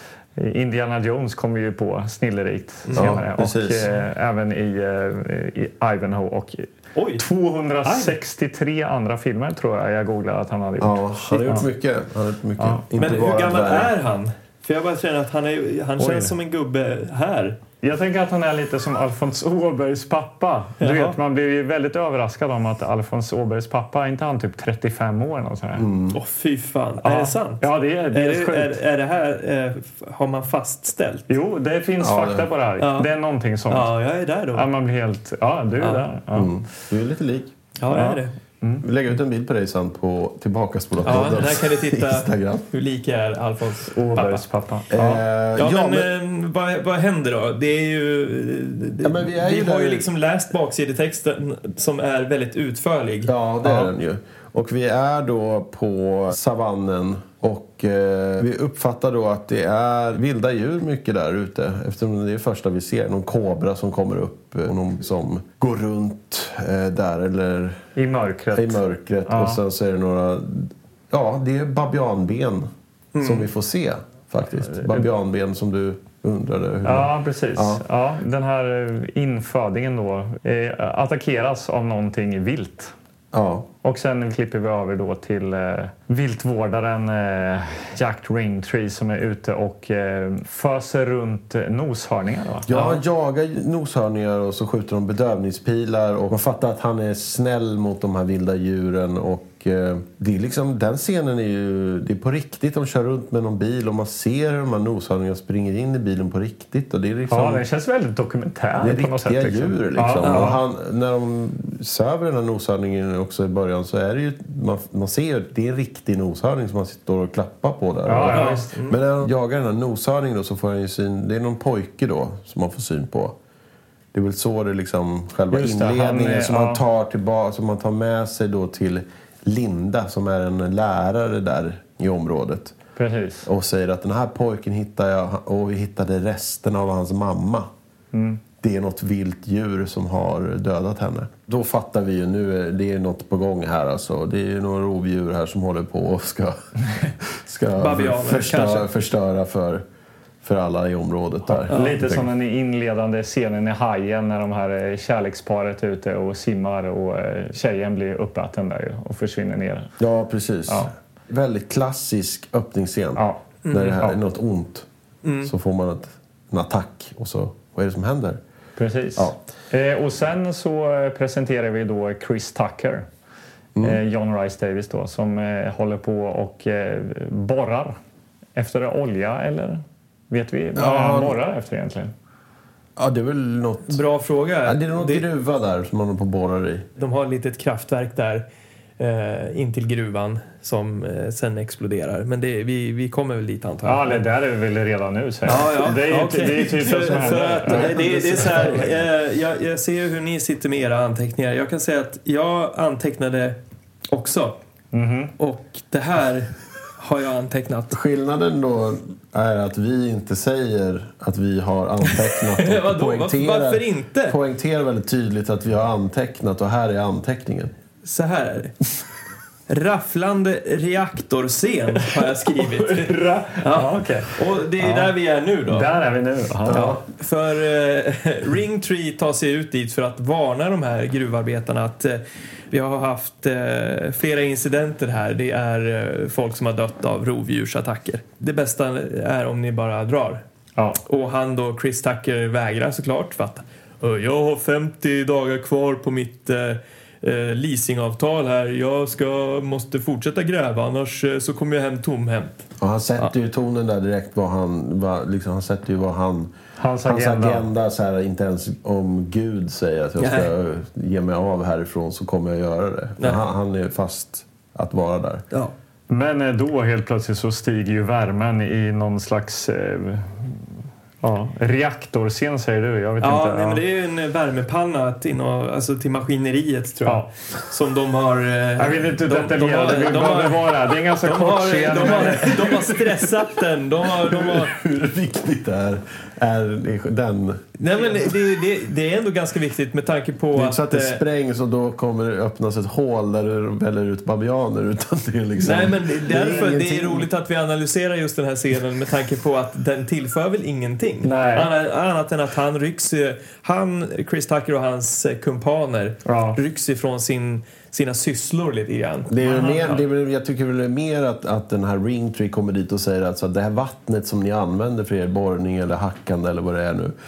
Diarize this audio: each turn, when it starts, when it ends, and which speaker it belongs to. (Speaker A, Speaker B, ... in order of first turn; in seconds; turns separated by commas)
Speaker A: 0.4-6.7, Speaker B: 2.9-3.2, Speaker C: 2.9-3.9, Speaker B: 6.9-7.2, Speaker A: 7.2-11.7, Speaker B: 7.8-8.1, Speaker C: 10.8-13.9, Speaker A: 12.6-12.9, Speaker B: 13.0-17.6, Speaker A: 16.0-16.3, Speaker A: 17.8-25.9, Speaker B: 20.8-21.2, Speaker C: 25.8-26.2, Speaker B: 26.1-31.3, Speaker A: 27.0-28.8, Speaker A: 31.3-33.9, Speaker C: 32.0-32.5, Speaker B: 32.8-33.1, Speaker B: 33.7-34.7, Speaker A: 34.5-36.5, Speaker B: 35.8-36.0, Speaker C: 36.4-37.5, Speaker B: 37.8-38.3, Speaker A: 37.9-38.9, Speaker C: 38.8-42.7, Speaker B: 41.0-44.4, Speaker A: 43.9-45.2, Speaker C: 44.9-46.1, Speaker B: 45.6-53.3, Speaker C: 49.0-50.1, Speaker C: 53.2-67.8, Speaker A: 53.6-53.9, Speaker A: 68.0-69.6, Speaker C: 68.5-72.7, Speaker B: 73.1-73.5, Speaker C: 73.2-77.8, Speaker A: 74.7-75.0, Speaker A: 76.8-82.9, Speaker C: 83.3-83.7, Speaker A: 83.8-93.0, Speaker C: 92.7-107.6, Speaker A: 107.3-110.6, Speaker C: 108.8-123.4, Speaker B: 110.2-110.5, Speaker A: 118.0-118.7, Speaker B: 118.2-119.0, Speaker C: 124.1-132.7, Speaker A: 125.5-126.8, Speaker A: 132.9-133.5, Speaker C: 133.4-137.7, Speaker A: 138.1-138.4, Speaker C: 138.6-149.8, Speaker B: 147.8-148.9, Speaker C: 150.4-152.3, Speaker A: 151.7-159.9, Speaker B: 151.7-152.0, Speaker C: 160.0-164.9, Speaker A: 163.2-163.4, Speaker B: 163.6-164.0, Speaker B: 165.2-165.5, Speaker C: 165.4-168.4, Speaker A: 168.8-173.1, Speaker A: 173.8-177.9, Speaker A: 178.6-182.1, Speaker C: 180.8-181.4, Speaker C: 183.0-184.0, Speaker B: 183.9-185.2, Speaker C: 184.6-186.9, Speaker B: 187.0-188.4, Speaker B: 189.0-194.2, Speaker A: 193.8-198.4, Speaker B: 195.5-203.6, Speaker C: 196.9-198.9, Speaker B: 204.1-204.6, Speaker A: 204.9-205.3, Speaker B: 205.4-207.9, Speaker C: 207.9-217.7, Speaker B: 212.0-214.4, Speaker B: 218.0-218.7, Speaker B: 219.7-225.9, Speaker A: 222.6-225.1, Speaker A: 225.7-227.0, Speaker C: 226.7-227.0, Speaker B: 226.7-240.4, Speaker B: 241.0-252.7, Speaker C: 252.8-265.4, Speaker A: 256.8-257.7, Speaker B: 260.2-260.5, Speaker A: 266.1-270.5, Speaker A: 271.2-273.8, Speaker B: 273.2-284.7, Speaker A: 278.8-282.9, Speaker C: 284.2-287.8, Speaker B: 287.8-291.2, Speaker C: 290.5-297.3, Speaker B: 295.6-310.0, Speaker A: 301.2-301.7, Speaker A: 306.2-306.6, Speaker C: 309.3-317.1